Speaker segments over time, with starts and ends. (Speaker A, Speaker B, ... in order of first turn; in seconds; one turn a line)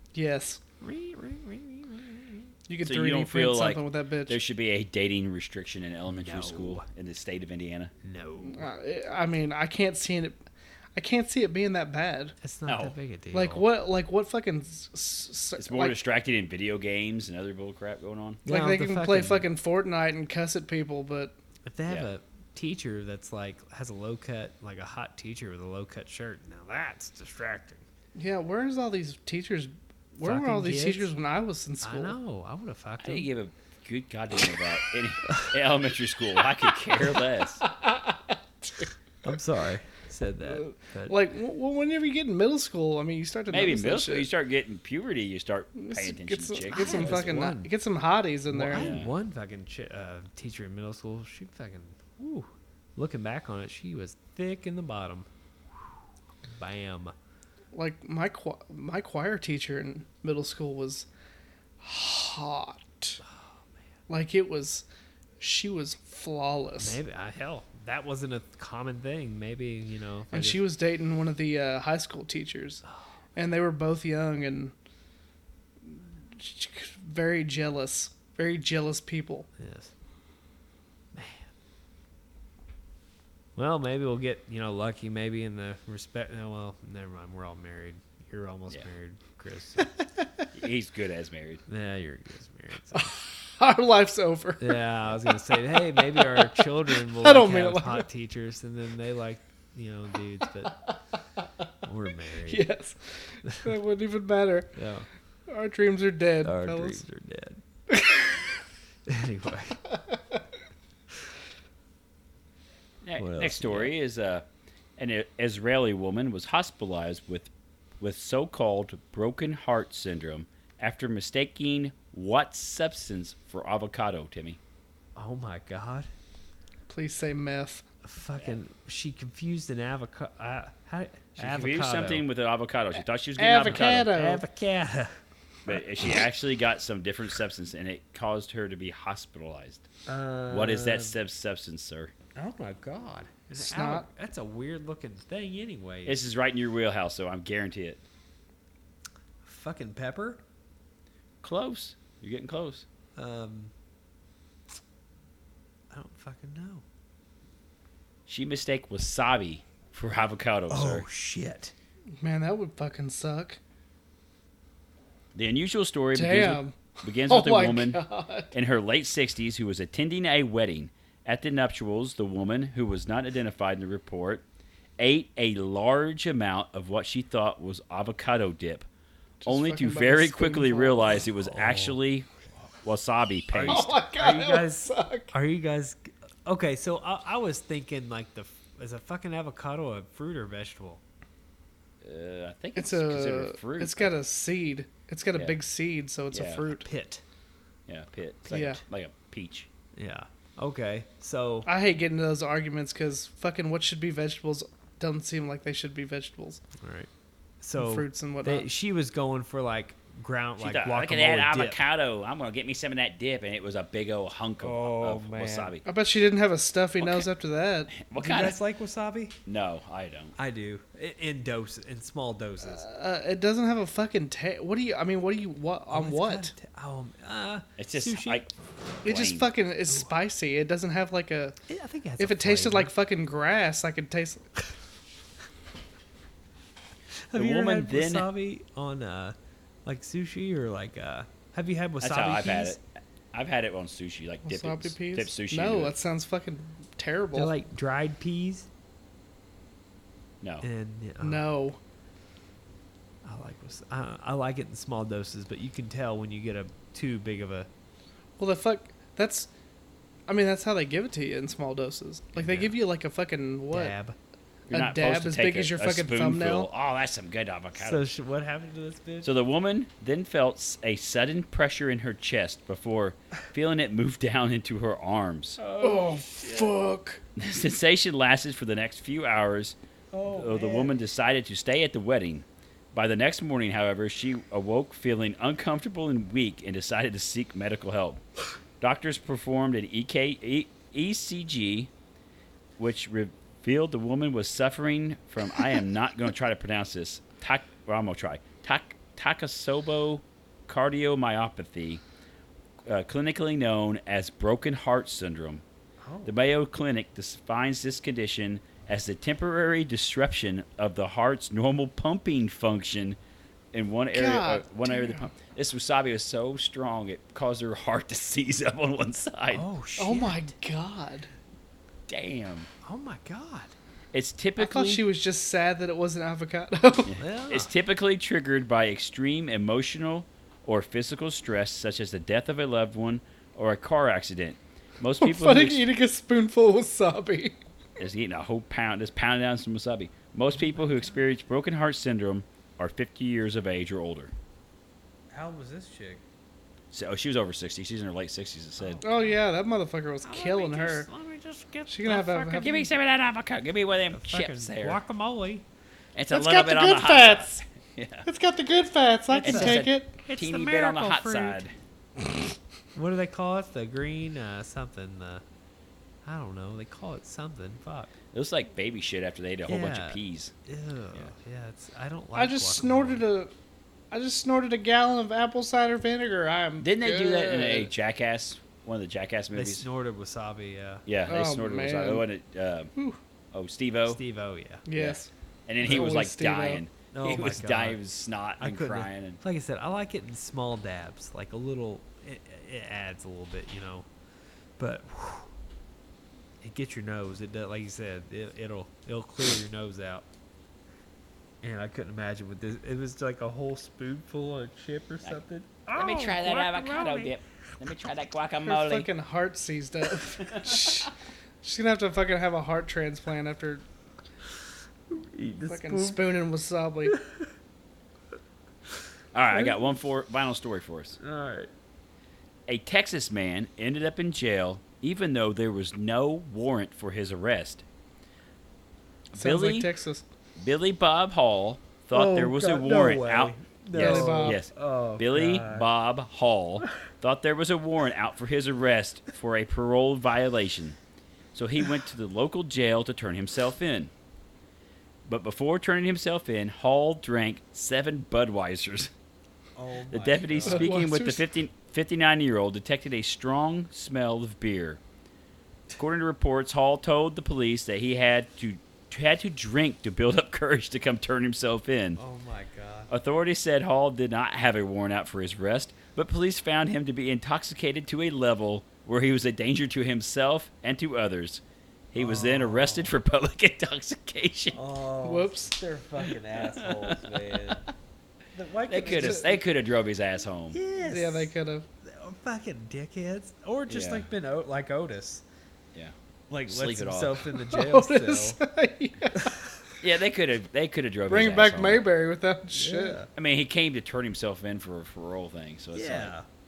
Speaker A: 0.1-0.6
Speaker B: 0.8-2.5
Speaker A: 2.7-4.4
Speaker C: 2.8-7.9
Speaker B: 6.1-6.9
Speaker B: 8.0-8.7
Speaker A: 8.5-12.3
Speaker B: 12.4-13.7
Speaker C: 12.7-12.9
Speaker A: 13.3-15.9
Speaker C: 15.6-18.4
Speaker B: 18.4-19.5
Speaker A: 18.5-21.4
Speaker B: 21.6-27.8
Speaker A: 28.2-32.2
Speaker B: 30.2-31.1
Speaker B: 31.8-33.3
Speaker C: 33.0-37.6
Speaker A: 37.6-38.9
Speaker B: 39.2-41.2
Speaker A: 40.5-44.3
Speaker C: 43.5-47.3
Speaker A: 45.8-48.9
Speaker B: 46.7-47.7
Speaker B: 48.5-55.3
Speaker C: 48.7-49.1
Speaker B: 56.6-57.1
Speaker A: 57.7-61.1
Speaker A: 61.8-63.2
Speaker B: 63.2-63.5
Speaker A: 64.1-64.8
Speaker A: 65.4-67.0
Speaker B: 66.8-70.6
Speaker A: 70.3-72.8
Speaker A: 73.4-74.7
Speaker A: 75.8-79.5
Speaker B: 79.6-79.9
Speaker B: 81.1-81.5
Speaker B: 83.6-89.9
Speaker C: 90.5-91.6
Speaker B: 91.7-93.1
Speaker A: 93.0-94.8
Speaker B: 94.6-100.8
Speaker A: 95.7-98.1
Speaker B: 101.8-102.7
Speaker A: 102.5-104.7
Speaker B: 103.5-103.7
Speaker B: 104.8-105.1
Speaker A: 105.5-107.0
Speaker B: 106.4-107.6
Speaker A: 107.9-108.3
Speaker B: 109.1-109.8
Speaker A: 109.9-110.4
Speaker C: 113.0-114.5
Speaker B: 113.2-113.9
Speaker C: 115.0-117.5
Speaker C: 118.0-124.6
Speaker B: 125.2-126.1
Speaker A: 126.9-127.9
Speaker B: 128.0-132.2
Speaker C: 131.4-134.1
Speaker A: 133.4-134.4
Speaker B: 133.7-135.2
Speaker C: 135.7-139.9
Speaker B: 140.1-141.2
Speaker C: 140.5-142.1
Speaker B: 142.4-146.2
Speaker A: 143.5-144.1
Speaker C: 146.1-148.0
Speaker B: 149.4-150.4
Speaker C: 151.4-152.9
Speaker B: 153.2-153.7
Speaker B: 155.9-156.8
Speaker C: 158.3-161.1
Speaker B: 160.7-161.7
Speaker A: 162.2-163.6
Speaker C: 165.3-168.0
Speaker A: 166.2-168.5
Speaker C: 168.5-174.4
Speaker C: 175.0-178.9
Speaker A: 179.4-181.2
Speaker C: 179.4-182.3
Speaker B: 181.3-182.0
Speaker C: 182.8-183.9
Speaker B: 183.5-191.0
Speaker A: 183.7-185.3
Speaker C: 192.0-194.1
Speaker A: 192.8-196.9
Speaker C: 196.3-196.7
Speaker B: 196.8-197.2
Speaker C: 197.9-199.7
Speaker A: 198.5-198.8
Speaker B: 200.0-201.7
Speaker A: 201.7-206.6
Speaker B: 206.8-207.1
Speaker B: 207.6-211.8
Speaker A: 207.8-208.7
Speaker C: 210.6-215.8
Speaker B: 214.6-215.8
Speaker A: 215.8-217.9
Speaker C: 217.0-217.3
Speaker C: 217.9-218.6
Speaker B: 218.1-219.4
Speaker C: 219.5-220.3
Speaker B: 220.4-222.8
Speaker A: 222.6-226.5
Speaker B: 225.9-228.4
Speaker C: 227.8-228.5
Speaker C: 229.0-229.5
Speaker A: 229.0-231.6
Speaker B: 231.7-232.9
Speaker A: 232.2-234.4
Speaker B: 237.3-242.8
Speaker C: 237.3-238.3
Speaker C: 242.0-245.9
Speaker A: 244.4-247.5
Speaker B: 247.3-248.7
Speaker B: 250.6-251.5
Speaker A: 251.2-251.8
Speaker B: 253.2-257.7
Speaker A: 258.4-259.5
Speaker A: 260.3-263.9
Speaker B: 262.4-262.7
Speaker B: 263.7-264.2
Speaker A: 264.7-266.7
Speaker C: 264.7-268.0
Speaker B: 267.8-269.3
Speaker C: 269.2-275.6
Speaker B: 275.6-276.8
Speaker A: 275.8-277.2
Speaker C: 277.4-288.2
Speaker B: 280.1-281.0
Speaker C: 288.8-291.9
Speaker C: 292.8-302.0
Speaker C: 302.9-305.6
Speaker B: 306.0-306.3
Speaker C: 306.3-313.2
Speaker C: 313.7-319.6
Speaker A: 314.1-315.3
Speaker B: 319.5-320.5
Speaker A: 320.0-321.3
Speaker C: 322.1-322.7
Speaker B: 322.9-323.7
Speaker C: 324.1-325.1
Speaker A: 324.6-327.2
Speaker C: 327.1-335.9
Speaker B: 327.2-327.7
Speaker A: 335.2-337.6
Speaker C: 338.0-344.3
Speaker B: 340.6-341.1
Speaker B: 345.3-346.2
Speaker C: 346.9-349.0
Speaker B: 348.8-349.4
Speaker A: 349.0-351.1
Speaker B: 350.2-352.9
Speaker A: 351.9-352.8
Speaker C: 352.6-355.0
Speaker B: 354.1-355.6
Speaker C: 356.1-358.3
Speaker A: 356.3-357.6
Speaker A: 358.2-360.1
Speaker B: 359.3-361.6
Speaker C: 359.4-361.7
Speaker B: 362.9-365.4
Speaker B: 366.2-368.1
Speaker C: 368.3-370.5
Speaker B: 369.7-373.2
Speaker A: 372.4-373.5
Speaker A: 374.1-377.9
Speaker C: 376.8-379.9
Speaker B: 379.5-381.1
Speaker C: 381.1-382.9
Speaker A: 381.3-382.2
Speaker C: 383.5-384.2
Speaker B: 384.1-384.9
Speaker A: 384.9-386.8
Speaker C: 385.0-389.4
Speaker B: 387.1-388.0
Speaker B: 388.6-394.1
Speaker B: 394.8-395.5
Speaker B: 396.6-400.3
Speaker B: 401.6-407.3
Speaker C: 405.9-409.1
Speaker A: 408.7-411.1
Speaker C: 410.4-411.1
Speaker A: 411.6-413.8
Speaker B: 415.1-416.2
Speaker A: 415.7-417.1
Speaker B: 417.1-417.5
Speaker C: 419.3-421.2
Speaker B: 421.2-421.7
Speaker C: 422.7-427.8
Speaker C: 429.3-429.9
Speaker A: 429.4-430.2
Speaker C: 430.6-441.0
Speaker B: 432.1-435.9
Speaker A: 433.9-434.6
Speaker C: 441.5-444.1
Speaker C: 445.3-449.1
Speaker B: 449.8-450.9
Speaker C: 450.1-455.0
Speaker A: 450.7-451.4
Speaker C: 455.9-462.2
Speaker B: 462.2-463.1
Speaker C: 463.1-471.6
Speaker C: 472.1-474.8
Speaker B: 472.1-473.1
Speaker B: 474.7-477.8
Speaker A: 475.2-475.7
Speaker C: 476.6-477.2
Speaker B: 478.5-479.6
Speaker C: 478.9-480.8
Speaker A: 479.0-479.5
Speaker B: 480.7-485.4
Speaker A: 481.1-481.9
Speaker C: 483.9-484.3
Speaker B: 486.5-488.6
Speaker C: 486.7-487.5
Speaker A: 487.7-489.5
Speaker B: 489.4-489.8
Speaker C: 490.0-492.0
Speaker A: 491.3-493.2
Speaker B: 492.7-493.3
Speaker C: 493.4-496.3
Speaker B: 495.9-496.5